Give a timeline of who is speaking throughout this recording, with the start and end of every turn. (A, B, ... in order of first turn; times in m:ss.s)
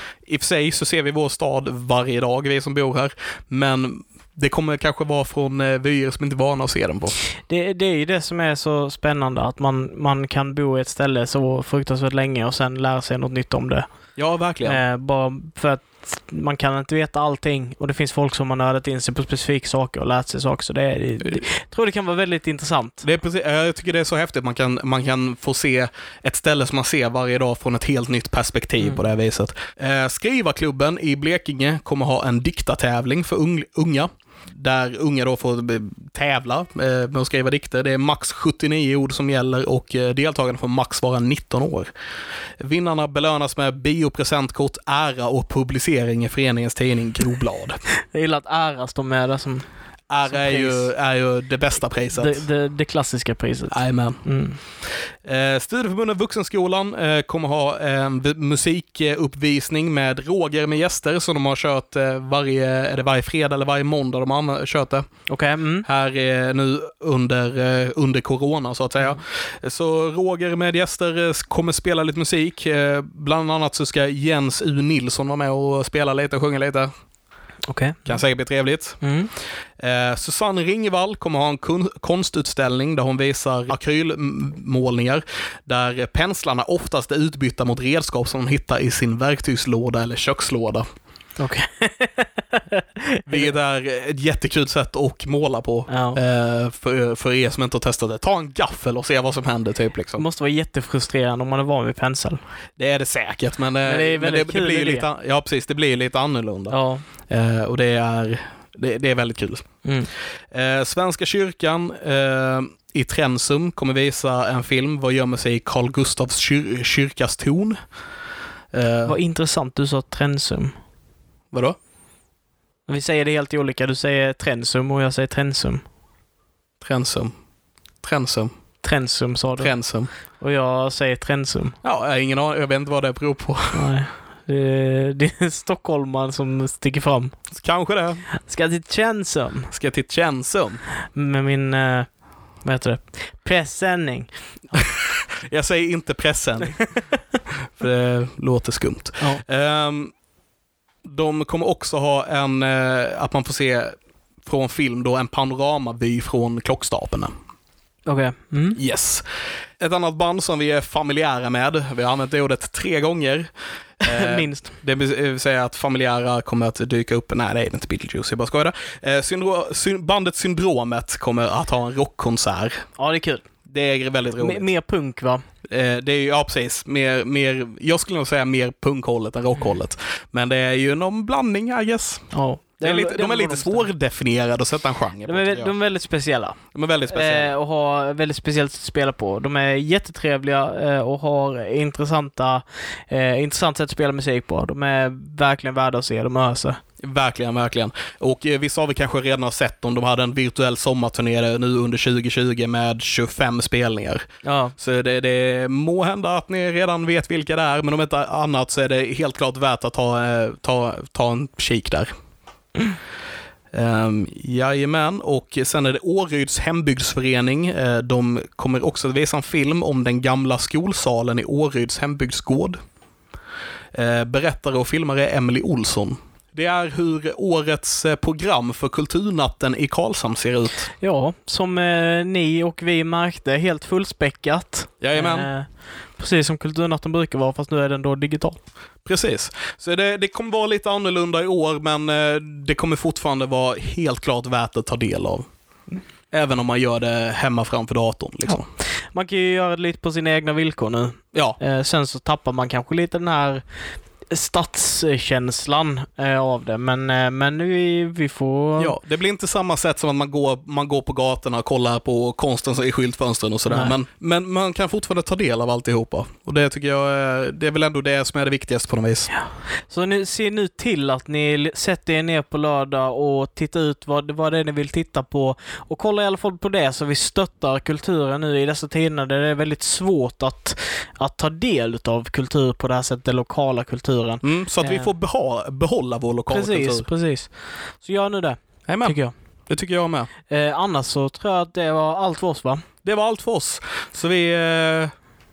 0:00.2-0:07.2 A
0:07.5-0:13.8 B
0:14.2-0:14.8 A
0:14.6-0:23.0 B
0:23.0-0:41.9 A
0:42.6-0:47.8 A
0:48.0-0:49.6 B
0:50.1-0:52.4 A
0:50.2-0:50.9 B
0:52.1-0:54.6 B
0:53.7-0:54.2 A
0:55.2-1:05.0 A
1:05.3-1:05.8 B
1:05.8-1:16.9 A
1:17.7-1:18.2 B
1:18.0-1:19.0 A
1:19.0-1:19.3 B
1:19.8-1:30.8 A
1:31.4-1:33.4 B
1:33.3-1:40.2 A
1:35.9-1:36.2 B
1:40.2-1:42.4 B
1:42.8-1:46.8 A
1:43.8-1:45.0 B
1:46.7-1:47.0 B
1:47.3-1:49.7 A
1:50.5-1:57.8 A
1:58.7-1:59.2 A
1:59.0-2:00.7 B
2:01.5-2:01.8 A
2:02.9-2:05.8 B
2:06.8-2:07.3 A
2:08.0-2:08.5 A
2:08.8-2:09.7 B
2:09.6-2:10.1 A
2:10.4-2:11.8 B
2:11.8-2:13.9 A
2:13.7-2:17.4 B
2:17.5-2:18.2 A
2:18.4-2:19.7 B
2:19.7-2:20.8 A
2:21.1-2:22.1 B
2:22.6-2:24.3 B
2:24.7-2:26.9 A
2:27.8-2:30.1 A
2:31.0-2:37.3 A
2:38.0-2:38.8 B
2:38.8-2:39.2 A
2:39.8-2:52.8 A
2:44.0-2:44.7 B
2:53.0-2:53.4 B
2:53.6-2:54.6 A
2:54.4-2:55.4 B
2:55.7-3:02.2 A
3:02.3-3:03.9 B
3:02.8-3:05.7 A
3:05.2-3:16.8 B
3:06.7-3:07.5 A
3:17.0-3:24.2 A
3:24.4-3:24.7 B
3:24.8-3:32.1 A
3:33.7-3:42.8 A
3:43.9-3:50.9 A
3:51.0-3:58.6 B
3:55.0-3:55.5 A
3:59.0-4:05.4 A
4:06.3-4:08.6 A
4:09.1-4:13.6 B
4:14.3-4:18.9 B
4:18.8-4:29.3 A
4:29.3-4:45.1 B
4:44.4-4:47.0 A
4:46.5-4:47.5 B
4:48.0-4:49.3 B
4:48.9-4:49.2 A
4:49.7-4:50.3 A
4:50.5-4:52.8 B
4:53.0-4:55.1 A